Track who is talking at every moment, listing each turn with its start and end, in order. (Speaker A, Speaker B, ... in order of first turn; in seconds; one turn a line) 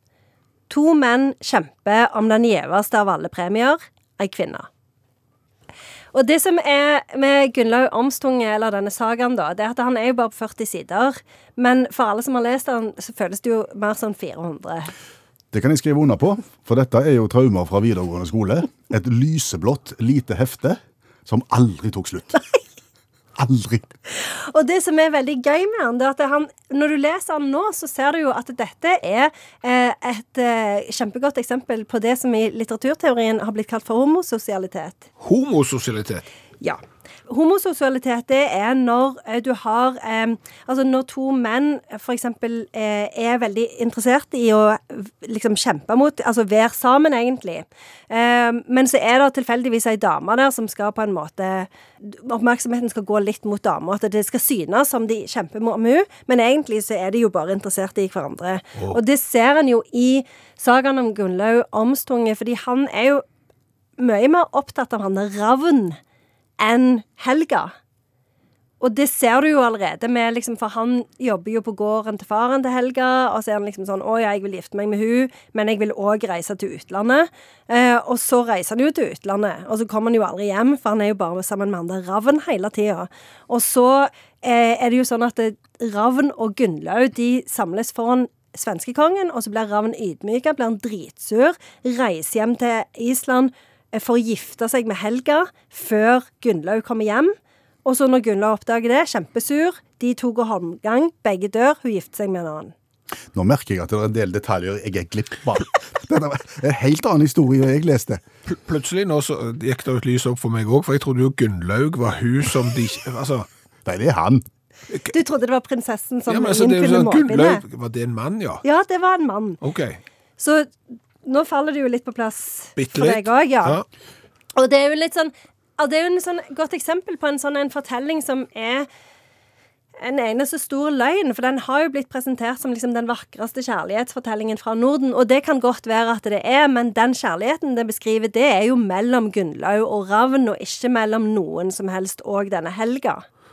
Speaker A: 0.7-4.7
Speaker A: 6.1-14.9
Speaker B: 15.5-22.4
Speaker B: 23.4-23.9
Speaker A: 24.1-35.0
Speaker C: 35.2-36.2
Speaker A: 36.6-63.2
Speaker A: 64.0-66.0
Speaker A: 66.6-67.7
Speaker A: 68.8-97.3
Speaker A: 97.8-102.7
Speaker B: 103.3-108.2
Speaker C: 108.5-113.5
Speaker B: 113.8-114.4
Speaker A: 115.1-117.6
Speaker C: 116.3-118.6
Speaker A: 118.6-119.6
Speaker C: 119.6-120.0
Speaker A: 120.4-123.8
Speaker C: 122.8-123.8
Speaker A: 124.5-128.9
Speaker A: 130.0-143.2